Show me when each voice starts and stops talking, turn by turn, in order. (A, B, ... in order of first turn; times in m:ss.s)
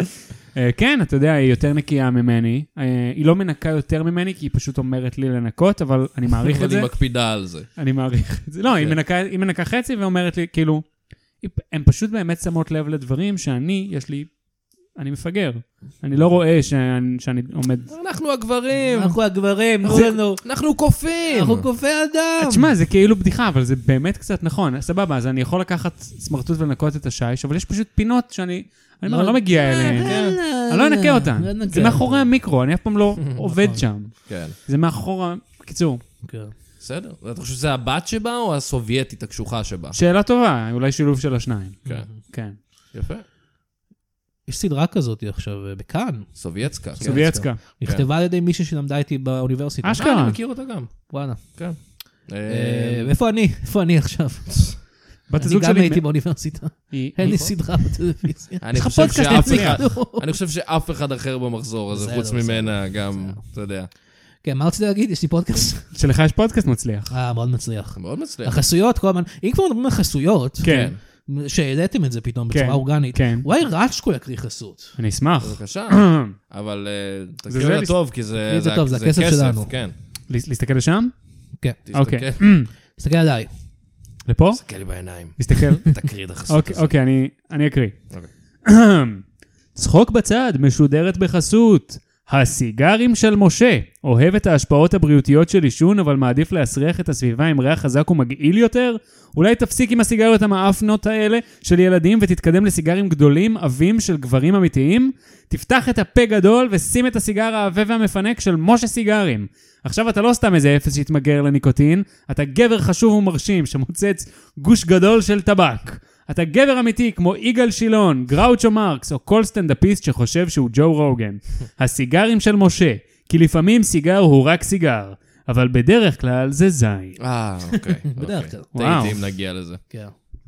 0:00.5-0:17.9 A
0:06.4-0:07.8 B
0:08.7-0:09.0 B
0:17.9-0:19.3 B
0:18.8-0:22.7 C
0:19.8-0:21.7 B
0:22.4-0:36.0 A
0:29.0-0:32.4 C
0:29.8-0:30.4 B
0:33.5-0:33.8 C
0:34.2-0:34.6 B
0:36.2-0:36.5 C
0:36.8-0:40.0 B
0:39.9-0:42.6 A
0:41.8-0:42.2 C
0:41.8-0:43.2 B
0:44.4-0:50.4 C
0:46.4-0:48.1 B
0:47.0-0:47.6 A
0:49.8-0:50.4 A
0:50.0-0:53.1 B
0:51.1-1:00.3 C
0:55.3-0:57.6 A
0:57.2-0:57.6 B
0:58.6-1:03.9 B
0:58.8-0:59.8 A
1:01.9-1:03.4 C
1:04.4-1:05.9 C
1:05.9-1:07.1 A
1:07.1-1:15.0 C
1:07.9-1:08.6 B
1:10.6-1:10.9 A
1:10.6-1:11.0 B
1:12.5-1:13.5 A
1:15.0-1:16.3 A
1:15.4-1:19.9 B
1:17.5-1:17.9 A
1:18.4-1:19.7 C
1:20.3-1:21.2 A
1:21.8-1:22.5 B
1:21.9-1:22.7 A
1:22.7-1:23.5 C
1:24.2-1:28.1 A
1:24.5-1:26.9 B
1:28.6-2:07.2 A
2:07.2-2:09.8 B
2:07.7-2:09.2 C
2:08.7-2:09.1 A